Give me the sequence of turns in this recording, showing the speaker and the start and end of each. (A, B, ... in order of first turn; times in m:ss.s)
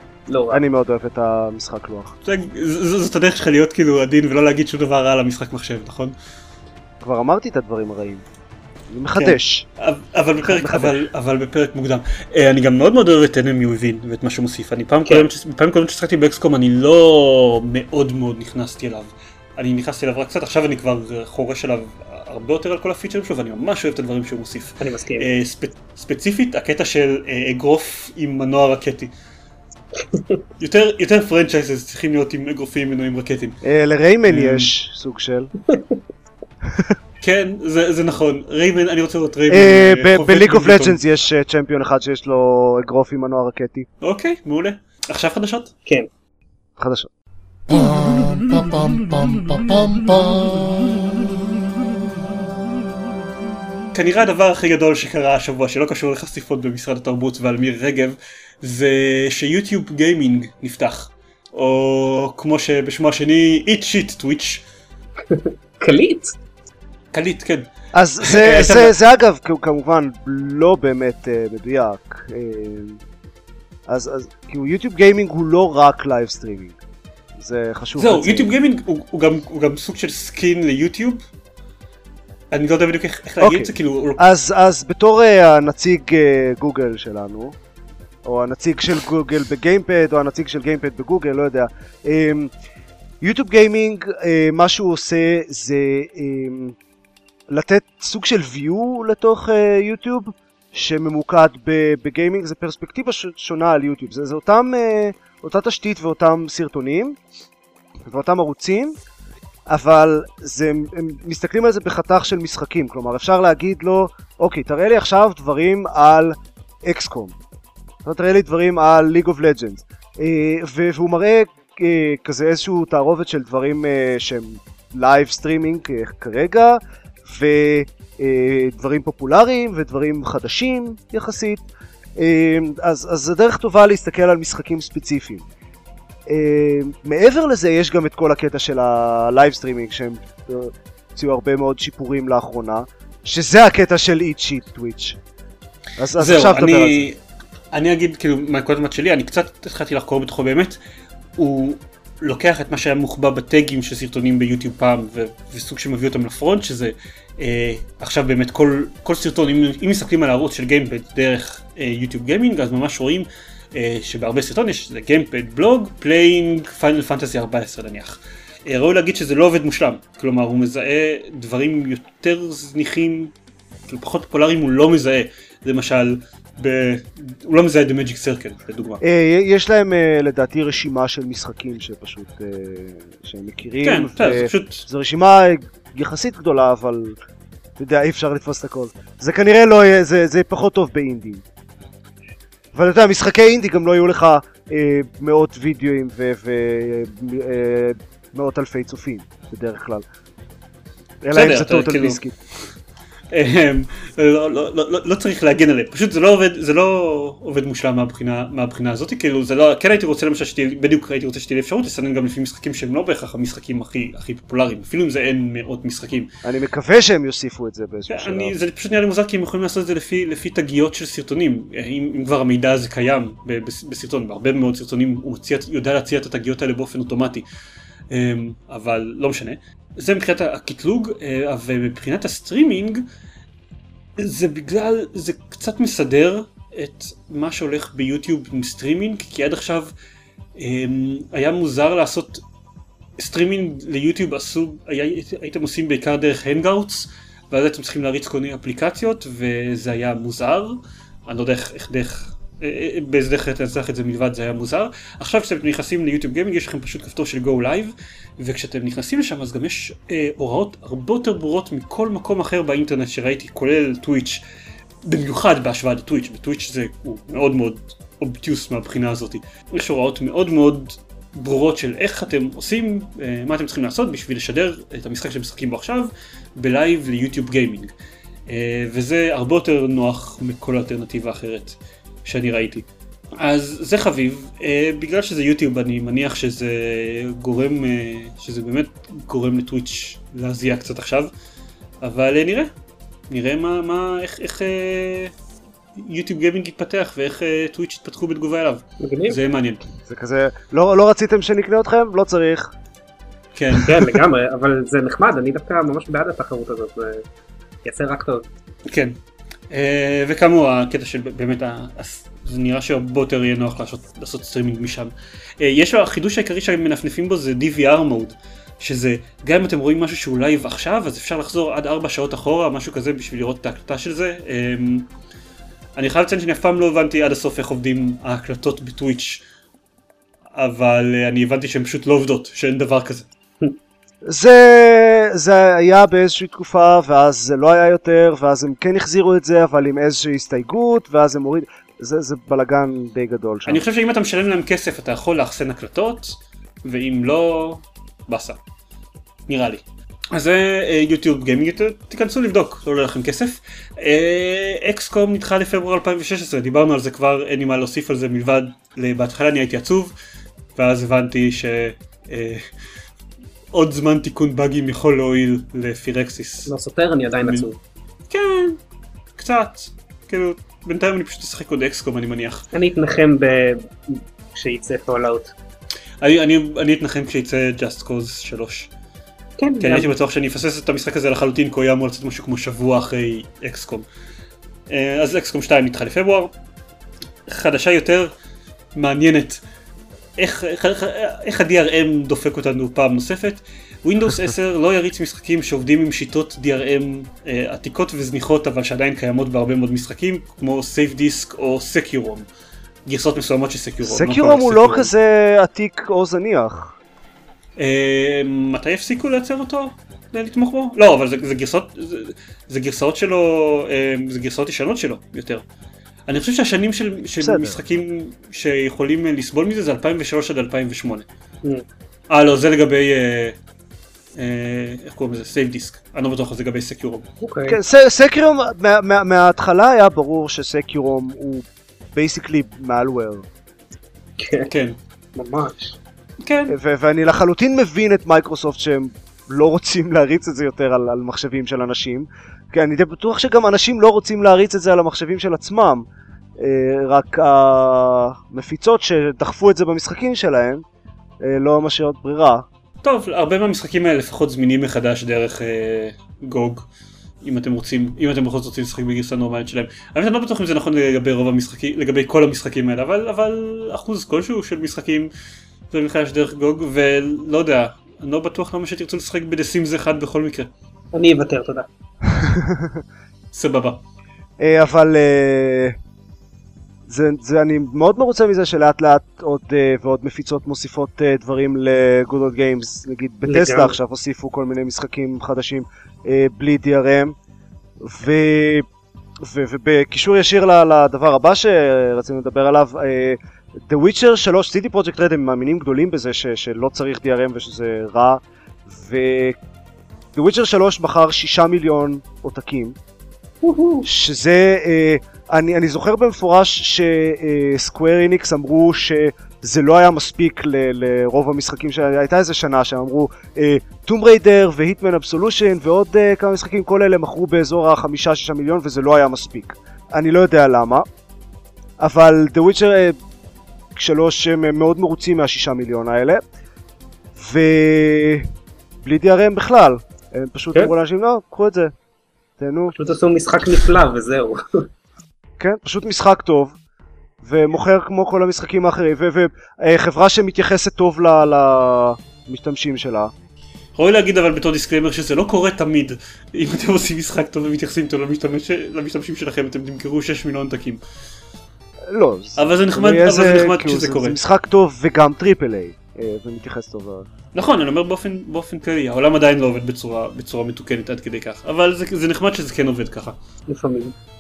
0:00.3-0:00.6 A
0:00.5-0:02.1 B
0:02.2-0:06.1 C
0:07.0-0:08.2 B
0:08.9-0:09.6 B
0:09.1-0:29.1 C
0:10.4-0:11.0 B
0:24.8-0:25.3 A
0:30.0-0:30.4 A
0:30.6-0:33.6 C
0:33.6-0:35.5 B
0:34.2-0:34.7 C
0:35.7-0:36.0 A
0:36.7-0:37.0 B
0:37.2-0:41.0 C
0:39.5-0:43.9 B
0:44.0-0:45.7 C
0:46.8-0:47.1 B
0:47.7-0:50.2 B
0:53.9-1:04.6 C
1:05.3-1:06.3 A
1:07.1-1:07.7 C
1:07.9-1:13.0 B
1:08.2-1:08.9 C
1:13.9-1:16.8 B
1:17.4-1:18.5 B
1:18.0-1:21.2 C
1:22.5-1:24.2 C
1:23.4-1:27.6 B
1:28.2-1:32.5 B
1:33.2-1:36.8 B
1:37.5-1:47.2 B
1:48.0-1:49.0 B
1:49.7-1:57.4 B
1:58.0-2:15.4 B
2:16.3-2:25.2 B
2:26.0-2:27.1 B
2:26.2-2:27.2 C
2:27.7-2:30.8 C
2:31.4-2:53.3 C
2:53.9-2:59.0 C
2:59.0-3:07.1 B
3:03.8-3:04.8 C
3:07.8-3:11.4 B
3:12.7-3:20.0 B
3:21.2-3:22.4 B
3:21.3-3:22.2 C
3:23.3-3:36.3 C
3:36.4-3:38.5 B
3:38.1-3:47.4 C
3:48.1-3:53.1 C
3:54.2-3:59.9 C
4:00.6-4:02.4 C
4:03.2-4:24.4 C
4:25.0-4:37.9 C
4:38.5-4:42.8 C
4:43.4-4:51.3 C
4:52.0-4:52.7 C
4:53.3-4:55.3 C
4:56.0-4:59.8 C
4:59.0-4:59.4 A
5:00.1-5:02.7 B
5:03.5-5:04.1 C
5:03.8-5:07.2 A
5:07.8-5:08.5 A
5:08.9-5:09.2 C
5:09.7-5:25.1 C
5:26.0-5:29.4 C
5:30.5-5:33.3 C
5:34.2-5:43.8 B
5:43.7-5:48.6 C
5:49.5-6:00.1 C
6:00.8-6:02.6 C
6:03.7-6:06.7 C
6:06.6-6:07.8 A
6:07.4-6:07.7 C
6:08.3-6:08.8 C
6:09.4-6:12.6 C
6:12.7-6:15.5 A
6:16.2-6:18.9 C
6:19.6-6:20.1 A
6:19.8-6:24.0 C
6:24.9-6:26.5 C
6:27.5-6:28.3 C
6:29.0-6:29.6 C
6:30.4-6:42.5 C
6:43.0-6:45.1 C
6:44.0-6:47.0 B
6:47.8-6:55.6 C
6:56.3-7:01.2 C
6:57.4-6:57.8 B
7:02.3-7:03.6 C
7:04.4-7:07.2 C
7:07.4-7:07.8 A
7:07.7-7:13.4 B
7:14.4-7:14.7 A
7:14.7-7:15.0 C
7:15.3-7:16.0 A
7:16.4-7:16.8 C
7:16.7-7:26.0 B
7:26.6-7:30.8 B
7:31.4-7:32.6 B
7:33.0-7:36.9 C
7:37.4-7:45.3 C
7:45.9-7:50.7 C
7:51.1-7:51.9 A
7:52.3-7:53.0 B
7:53.5-7:54.0 C
7:54.6-7:56.0 B
7:57.1-8:07.3 B
8:03.4-8:04.0 A
8:08.0-8:08.8 B
8:09.4-8:19.6 B
8:20.3-8:23.0 B
8:23.6-8:24.1 A
8:24.0-8:41.0 B
8:42.0-8:43.2 B
8:43.9-8:46.4 B
8:47.4-8:48.5 B
8:49.0-8:51.9 B
8:52.6-8:52.9 B
8:52.9-8:54.8 A
8:55.6-8:56.8 B
8:57.4-9:03.3 B
9:04.0-9:11.0 C
9:12.1-9:17.3 B
9:12.6-9:14.4 C
9:17.5-9:23.4 C
9:23.7-9:24.1 A